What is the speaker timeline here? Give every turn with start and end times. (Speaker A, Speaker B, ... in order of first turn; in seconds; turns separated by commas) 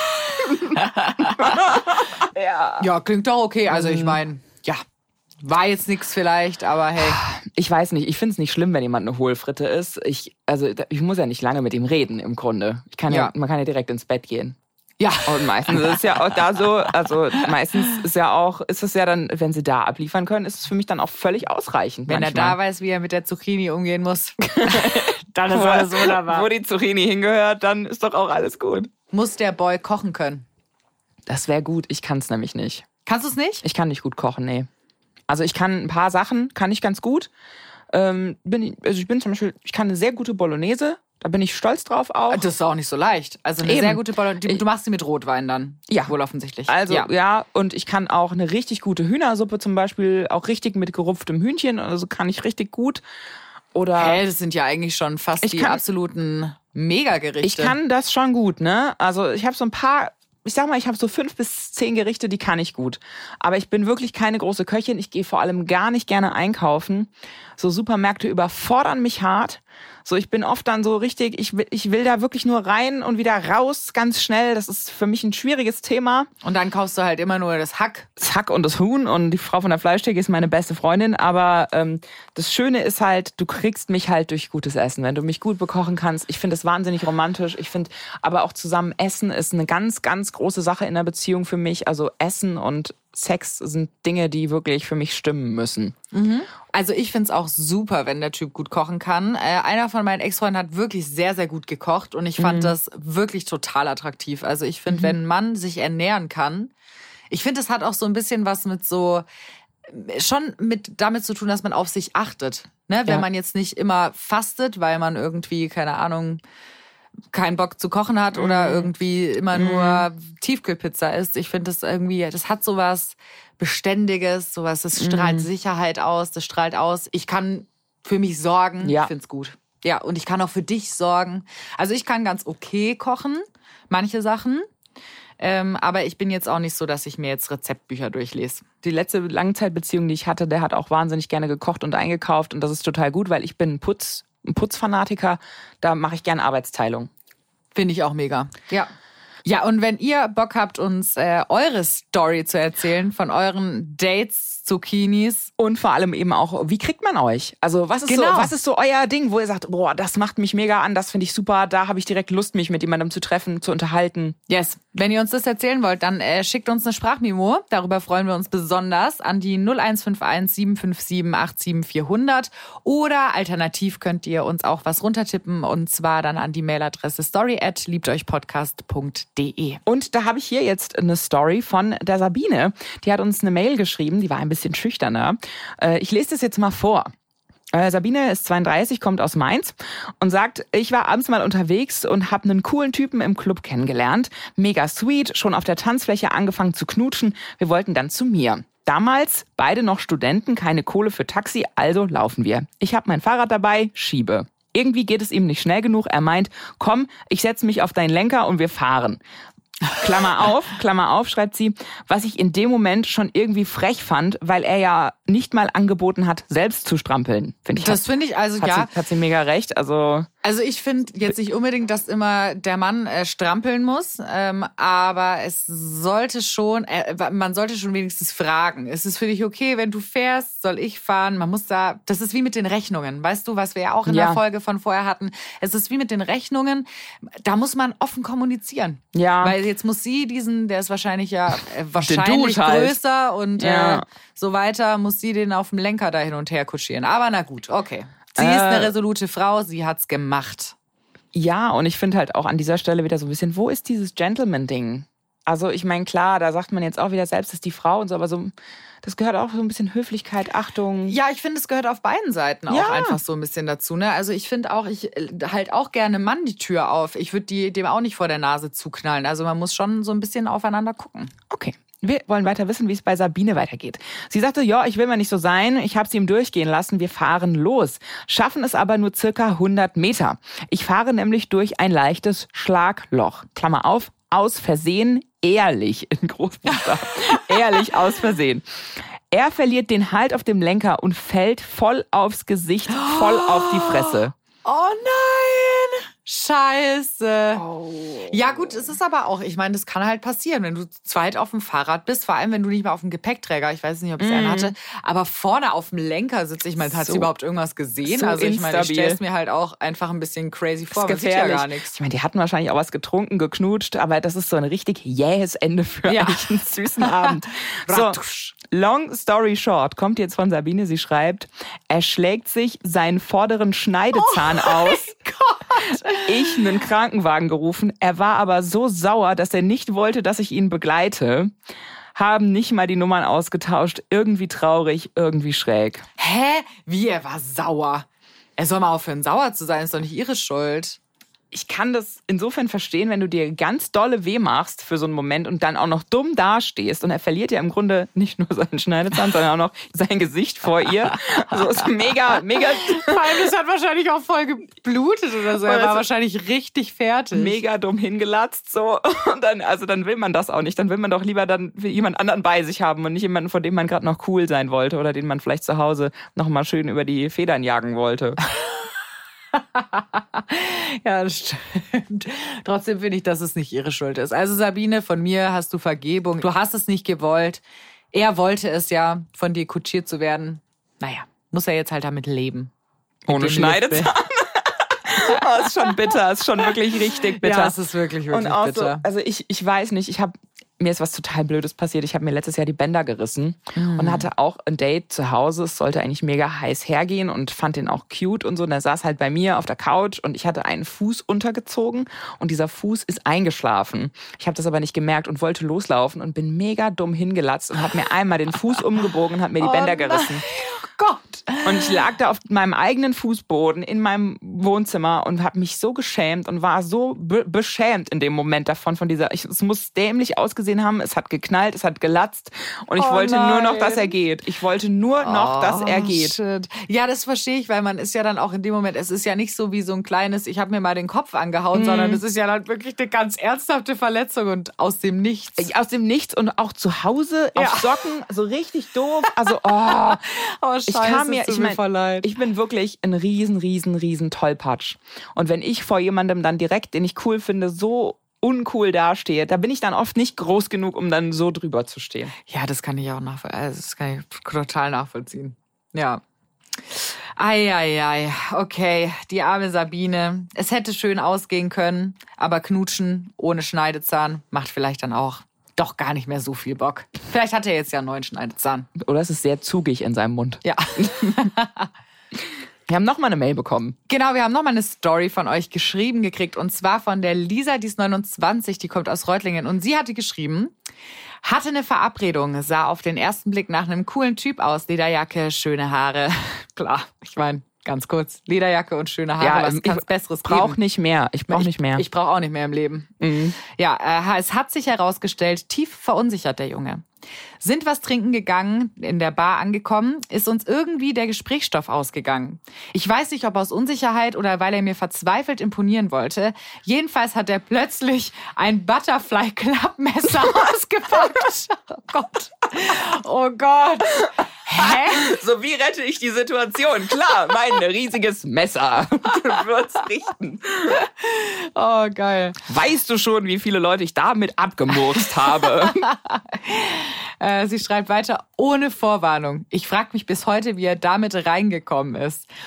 Speaker A: 0.4-2.9, Speaker B: 0.7-1.6, Speaker B: 2.8-4.8, Speaker A: 3.7-4.2, Speaker B: 5.4-7.2, Speaker A: 7.0-14.6, Speaker B: 13.1-13.3, Speaker B: 15.0-16.6, Speaker A: 15.2-22.6, Speaker B: 22.1-26.5, Speaker A: 24.5-28.9, Speaker B: 29.1-30.4, Speaker A: 31.3-32.9, Speaker B: 33.0-33.6, Speaker A: 33.6-34.7, Speaker A: 35.3-37.3, Speaker A: 37.9-42.5, Speaker B: 42.3-47.1, Speaker A: 43.6-44.6, Speaker A: 45.9-46.1, Speaker A: 46.7-53.0, Speaker A: 53.7-54.2, Speaker B: 54.0-57.8, Speaker A: 55.4-55.8, Speaker A: 57.4-76.3, Speaker B: 76.4-78.1, Speaker A: 78.2-95.9, Speaker B: 96.1-106.7, Speaker A: 102.4-102.8, Speaker A: 104.9-105.2, Speaker B: 107.3-109.2, Speaker B: 109.9-116.4, Speaker B: 117.3-134.7, Speaker A: 118.3-118.9, Speaker A: 119.5-120.1, Speaker A: 124.9-125.5, Speaker A: 128.8-129.1, Speaker B: 135.4-138.7, Speaker A: 138.8-147.1, Speaker B: 147.7-148.9, Speaker B: 149.4-155.5, Speaker A: 155.6-164.3, Speaker B: 158.1-158.5, Speaker B: 164.5-179.8, Speaker A: 179.8-187.1, Speaker A: 187.7-209.2, Speaker A: 209.9-218.0, Speaker B: 217.8-218.9, Speaker A: 218.6-220.3, Speaker B: 220.4-250.7, Speaker A: 234.0-234.4, Speaker A: 239.1-239.6, Speaker A: 242.0-243.0, Speaker A: 243.6-244.0, Speaker A: 248.3-248.9, Speaker A: 251.3-261.2, Speaker B: 261.1-271.3, Speaker A: 262.7-263.2, Speaker A: 271.5-288.6, Speaker B: 286.8-287.4, Speaker A: 289.3-294.3, Speaker B: 292.9-297.6, Speaker A: 297.5-298.9, Speaker B: 298.3-312.0, Speaker A: 304.2-304.8, Speaker A: 306.8-307.3, Speaker A: 308.0-309.2, Speaker A: 310.9-325.1, Speaker B: 316.0-318.5, Speaker B: 324.1-326.6, Speaker A: 325.9-331.5, Speaker A: 332.1-336.0, Speaker B: 336.2-341.0, Speaker A: 341.5-353.2, Speaker B: 352.8-357.6, Speaker A: 355.6-356.0, Speaker A: 357.3-368.4, Speaker B: 369.5-382.7, Speaker A: 383.3-410.4, Speaker B: 383.3-384.1, Speaker B: 385.3-385.9, Speaker B: 387.4-389.0, Speaker B: 393.7-394.3, Speaker B: 409.6-412.0, Speaker A: 411.6-426.4, Speaker B: 422.9-424.1, Speaker B: 425.2-435.7, Speaker A: 431.7-432.2, Speaker A: 435.6-440.2, Speaker B: 437.6-437.9, Speaker B: 439.5-442.3, Speaker A: 440.9-452.3, Speaker B: 452.4-456.2, Speaker B: 456.9-468.9, Speaker A: 469.0-471.4, Speaker B: 470.6-471.9, Speaker A: 472.9-473.9, Speaker B: 474.1-480.7, Speaker B: 481.4-490.8, Speaker A: 489.4-492.0, Speaker B: 491.5-493.1, Speaker A: 493.2-493.6, Speaker B: 493.6-497.1, Speaker B: 497.6-515.3, Speaker A: 514.8-521.0, Speaker B: 520.9-522.6, Speaker A: 522.6-526.0, Speaker B: 525.6-532.5